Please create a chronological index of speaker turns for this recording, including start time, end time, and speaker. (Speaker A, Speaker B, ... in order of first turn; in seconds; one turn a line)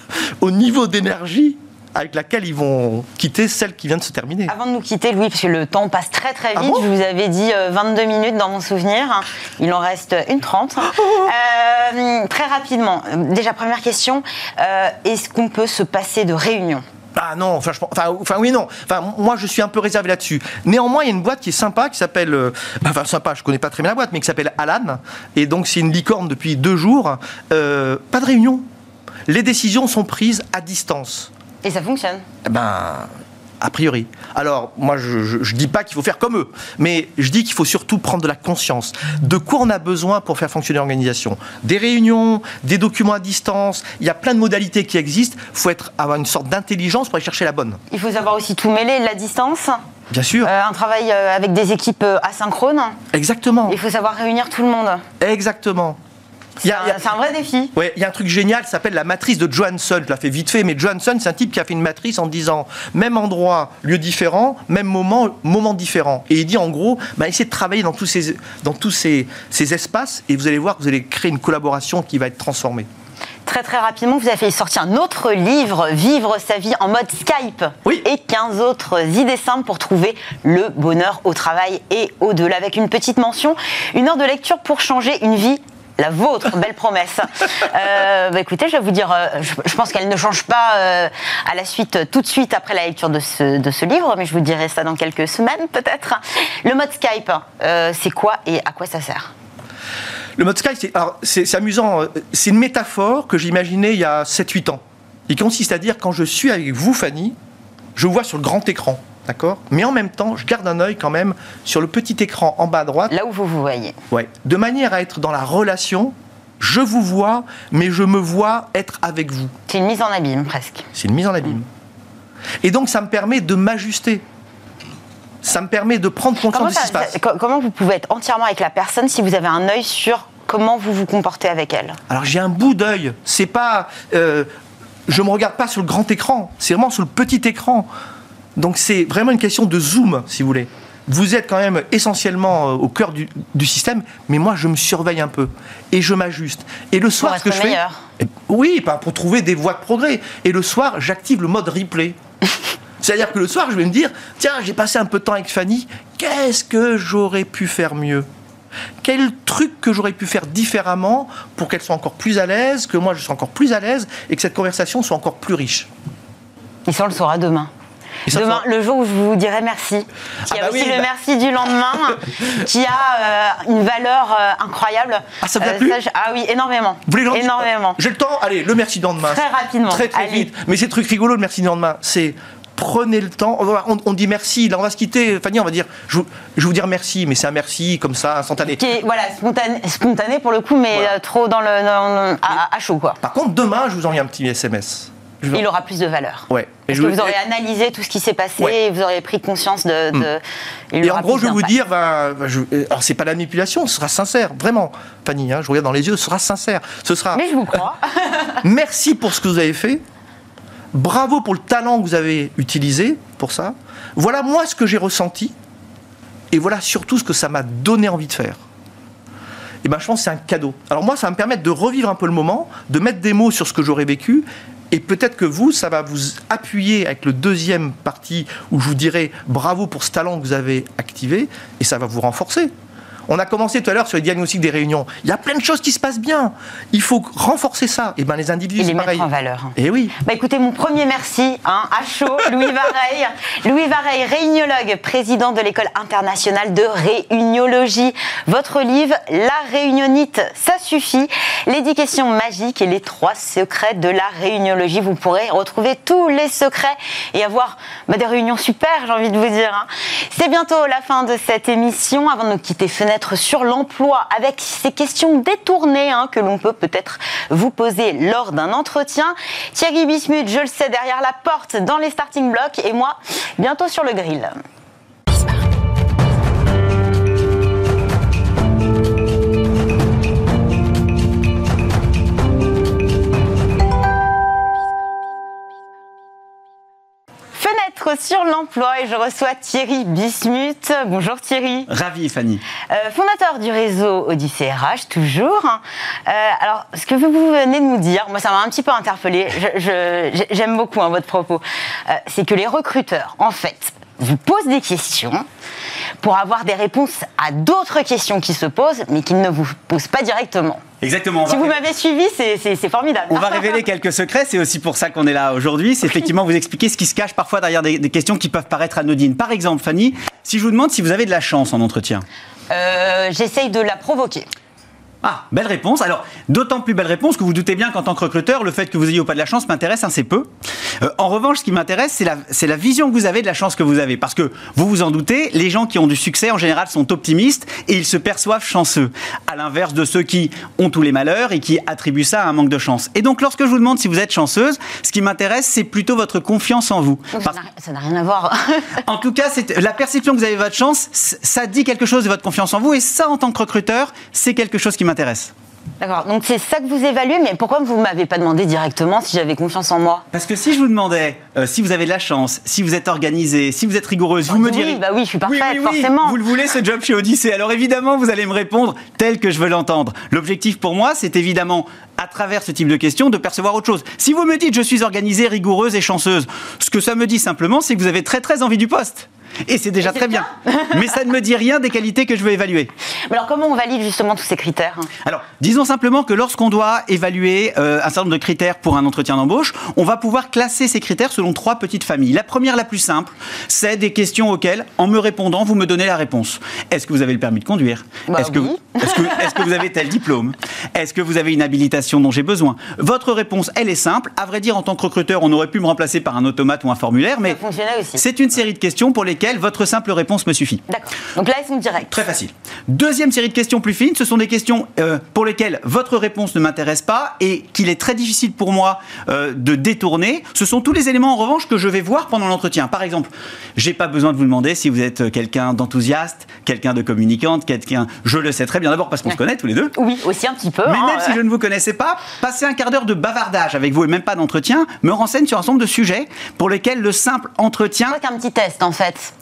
Speaker A: 0.4-4.5
Speaker B: 4.5-16.8
Speaker A: 6.6-6.9
Speaker A: 17.2-28.6
Speaker A: 29.3-31.3
Speaker B: 31.6-32.2
Speaker A: 32.5-33.1
Speaker A: 33.6-47.8
Speaker B: 47.9-49.8
Speaker A: 50.1-50.5
Speaker B: 50.4-53.0
Speaker A: 53.1-53.8
Speaker B: 53.7-55.0
Speaker A: 55.2-56.0
Speaker B: 56.6-57.7
Speaker A: 56.6-57.0
Speaker A: 57.8-72.9
Speaker B: 73.5-99.3
Speaker A: 100.4-107.3
Speaker A: 108.0-113.1
Speaker B: 113.1-114.0
Speaker A: 114.1-119.5
Speaker B: 119.7-120.9
Speaker A: 120.9-121.7
Speaker A: 122.6-124.2
Speaker A: 125.4-127.2
Speaker B: 126.5-132.0
Speaker A: 132.1-134.5
Speaker A: 135.1-137.9
Speaker A: 138.6-152.2
Speaker B: 147.2-148.0
Speaker A: 153.0-158.3
Speaker A: 159.0-165.9
Speaker B: 166.9-167.7
Speaker A: 168.3-168.6
Speaker B: 168.3-178.0
Speaker A: 170.5-171.1
Speaker A: 175.4-176.0
Speaker A: 177.1-188.8
Speaker B: 179.2-180.5
Speaker B: 188.7-193.2
Speaker A: 193.2-195.6
Speaker B: 195.5-201.7
Speaker A: 196.5-197.3
Speaker A: 201.0-207.5
Speaker B: 207.3-208.6
Speaker A: 208.6-210.0
Speaker A: 210.9-215.5
Speaker A: 216.5-218.6
Speaker A: 219.8-232.7
Speaker A: 233.3-240.1
Speaker B: 238.8-274.6
Speaker B: 287.5-291.9
Speaker C: 291.9-292.6
Speaker B: 292.9-305.4
Speaker B: 306.2-310.8
Speaker C: 311.0-311.8
Speaker B: 311.4-313.8
Speaker C: 313.3-322.2
Speaker B: 322.7-324.5
Speaker C: 325.2-330.5
Speaker C: 331.0-347.6
Speaker B: 347.4-349.0
Speaker C: 349.0-355.5
Speaker B: 356.0-360.2
Speaker C: 360.3-382.9
Speaker B: 364.5-366.4
Speaker B: 380.0-381.0
Speaker B: 383.3-385.1
Speaker C: 385.2-407.6
Speaker B: 398.3-399.6
Speaker B: 407.4-408.2
Speaker C: 408.1-410.8
Speaker B: 410.9-412.1
Speaker C: 412.1-429.9
Speaker B: 430.0-431.4
Speaker C: 430.9-438.2
Speaker B: 438.1-439.3